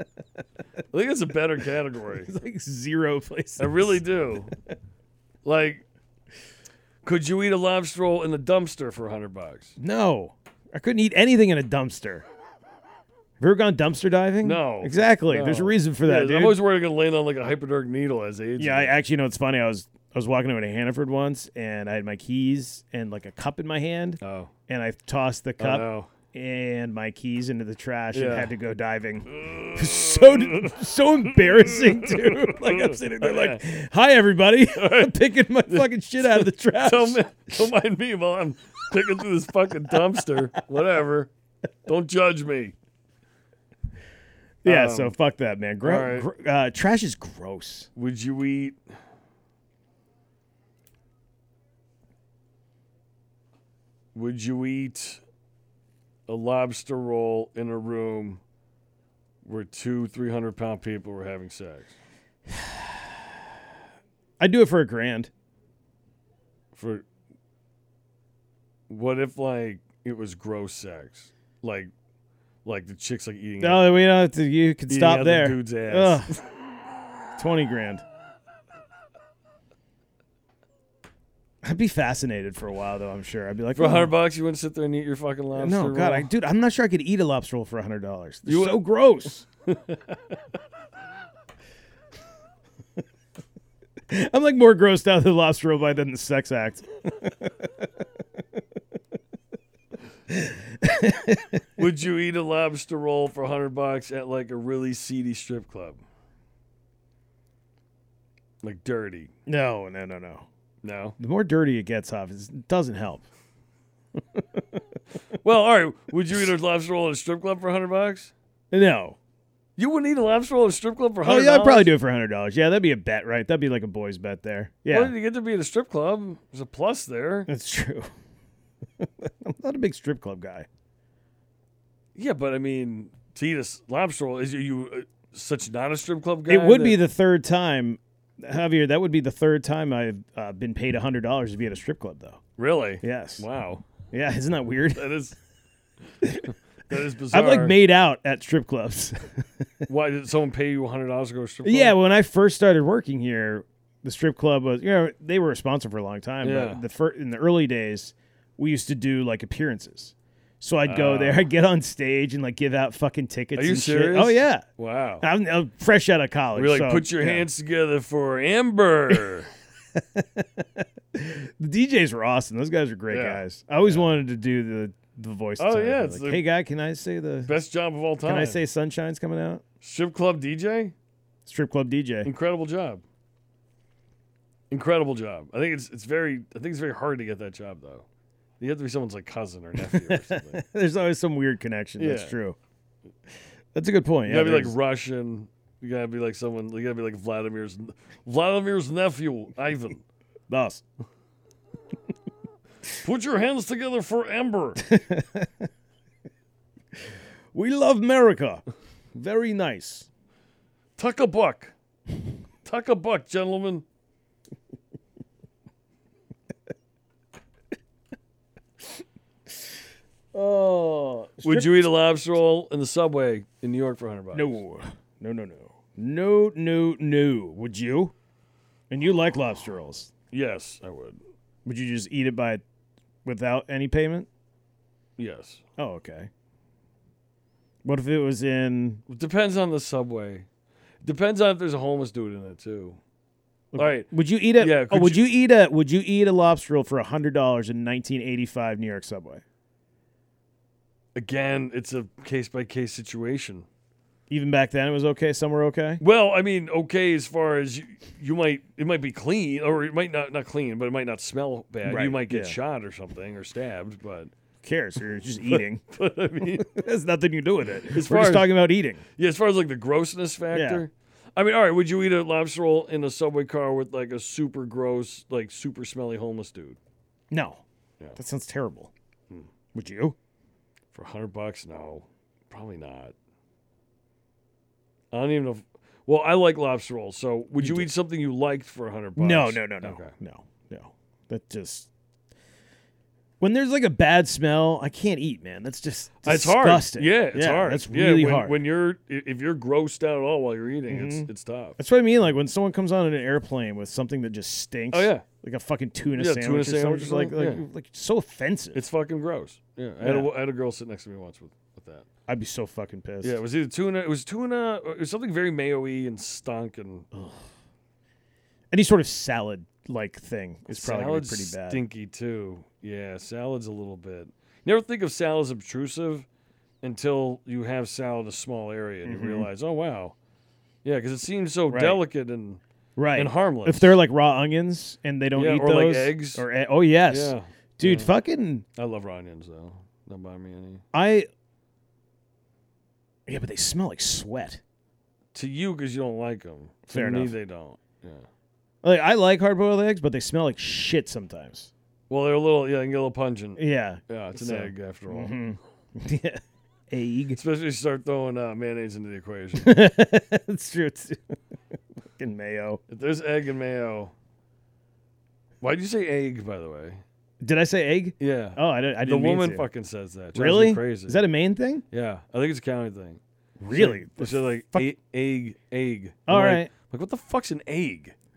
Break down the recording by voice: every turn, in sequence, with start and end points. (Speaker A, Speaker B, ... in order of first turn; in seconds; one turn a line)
Speaker A: 0.9-2.3
Speaker B: 2.3-4.6
Speaker A: 3.6-4.5
Speaker A: 5.5-5.8
Speaker A: 7.0-9.8
Speaker B: 9.8-12.3
Speaker B: 13.4-16.6
Speaker A: 14.4-19.0
Speaker B: 18.6-37.2
Speaker A: 24.2-24.5
Speaker A: 25.6-26.1
Speaker A: 28.1-28.5
Speaker A: 29.3-30.8
Speaker A: 31.6-33.6
Speaker A: 34.7-35.2
Speaker A: 35.7-41.3
Speaker B: 39.9-40.2
Speaker A: 41.9-42.8
Speaker B: 44.6-47.9
Speaker A: 44.6-45.1
Speaker A: 45.8-46.3
Speaker A: 48.0-48.8
Speaker A: 54.1-55.2
Speaker A: 56.3-58.4
Speaker A: 59.4-61.9
Speaker B: 64.4-65.3
Speaker A: 66.8-67.1
Speaker A: 68.9-71.9
Speaker A: 72.7-74.0
Speaker B: 73.6-76.3
Speaker A: 74.9-76.4
Speaker B: 77.4-78.0
Speaker B: 81.6-84.1
Speaker A: 83.8-86.3
Speaker B: 85.6-89.5
Speaker A: 88.5-88.8
Speaker A: 89.7-90.4
Speaker B: 94.1-98.4
Speaker B: 100.3-101.8
Speaker A: 101.8-106.0
Speaker A: 108.6-109.3
Speaker B: 109.5-110.5
Speaker A: 110.8-111.2
Speaker B: 111.2-113.2
Speaker B: 114.3-114.8
Speaker A: 115.4-118.3
Speaker B: 118.7-119.2
Speaker A: 119.8-121.9
Speaker B: 121.2-125.1
Speaker A: 124.9-127.5
Speaker B: 127.5-128.1
Speaker B: 129.0-130.7
Speaker A: 132.2-137.0
Speaker B: 136.5-142.4
Speaker A: 142.6-143.9
Speaker B: 143.0-143.4
Speaker B: 144.1-145.1
Speaker A: 144.9-145.4
Speaker A: 146.4-147.7
Speaker B: 147.3-149.7
Speaker A: 149.9-152.0
Speaker B: 151.6-164.7
Speaker A: 156.4-156.8
Speaker A: 160.9-161.5
Speaker A: 163.6-165.3
Speaker B: 165.2-167.5
Speaker A: 166.6-169.5
Speaker B: 169.9-177.5
Speaker A: 173.1-174.2
Speaker A: 175.6-176.4
Speaker A: 177.5-178.6
Speaker B: 178.2-179.6
Speaker A: 179.8-180.9
Speaker B: 181.5-182.3
Speaker A: 182.2-183.0
Speaker A: 184.7-188.1
Speaker A: 188.6-190.6
Speaker B: 189.8-192.6
Speaker A: 192.0-192.3
Speaker B: 193.7-194.8
Speaker A: 194.2-200.0
Speaker B: 200.5-200.8
Speaker A: 203.0-204.9
Speaker B: 204.9-205.7
Speaker B: 207.5-210.1
Speaker A: 211.0-211.7
Speaker A: 212.6-213.8
Speaker B: 220.3-221.9
Speaker A: 221.4-224.6
Speaker B: 224.3-228.1
Speaker B: 228.9-230.1
Speaker A: 230.3-231.2
Speaker B: 231.7-232.6
Speaker B: 233.2-234.3
Speaker A: 235.2-235.6
Speaker B: 235.8-236.3
Speaker B: 237.8-239.0
Speaker A: 239.1-240.5
Speaker A: 241.0-243.0
Speaker B: 243.7-249.4
Speaker A: 243.8-245.2
Speaker A: 251.2-253.7
Speaker B: 254.3-256.0
Speaker A: 256.0-264.3
Speaker B: 261.9-262.6
Speaker B: 264.6-265.8
Speaker A: 265.4-266.8
Speaker B: 266.6-269.0
Speaker A: 267.9-268.6
Speaker A: 269.2-276.8
Speaker B: 270.5-270.8
Speaker B: 277.3-277.6
Speaker B: 278.2-278.9
Speaker B: 279.7-280.2
Speaker A: 280.9-283.1
Speaker A: 285.1-290.1
Speaker B: 287.6-287.9
Speaker B: 289.2-291.9
Speaker B: 293.4-298.6
Speaker A: 296.2-301.8
Speaker B: 300.9-308.9
Speaker A: 304.9-305.2
Speaker A: 306.2-307.6
Speaker A: 308.7-312.1
Speaker B: 310.0-310.3
Speaker B: 312.3-313.4
Speaker A: 313.2-317.1
Speaker B: 317.1-317.4
Speaker B: 318.7-321.8
Speaker A: 320.7-326.3
Speaker A: 326.8-330.2
Speaker B: 329.1-329.5
Speaker A: 330.8-332.6
Speaker B: 331.7-332.0
Speaker B: 333.0-338.6
Speaker A: 333.1-334.0
Speaker A: 335.4-336.5
Speaker A: 337.1-338.1
Speaker A: 338.8-340.8
Speaker B: 340.9-341.3
Speaker B: 343.3-344.6
Speaker A: 345.3-348.3
Speaker B: 346.9-347.3
Speaker B: 348.8-351.7
Speaker A: 352.1-355.4
Speaker B: 353.6-357.4
Speaker A: 357.4-359.9
Speaker B: 359.6-361.3
Speaker B: 362.1-362.8
Speaker A: 362.9-364.1
Speaker A: 365.6-367.0
Speaker B: 367.4-369.7
Speaker A: 368.2-371.3
Speaker B: 370.4-371.8
Speaker A: 371.9-373.2
Speaker B: 373.6-374.9
Speaker A: 373.7-378.1
Speaker B: 376.3-376.7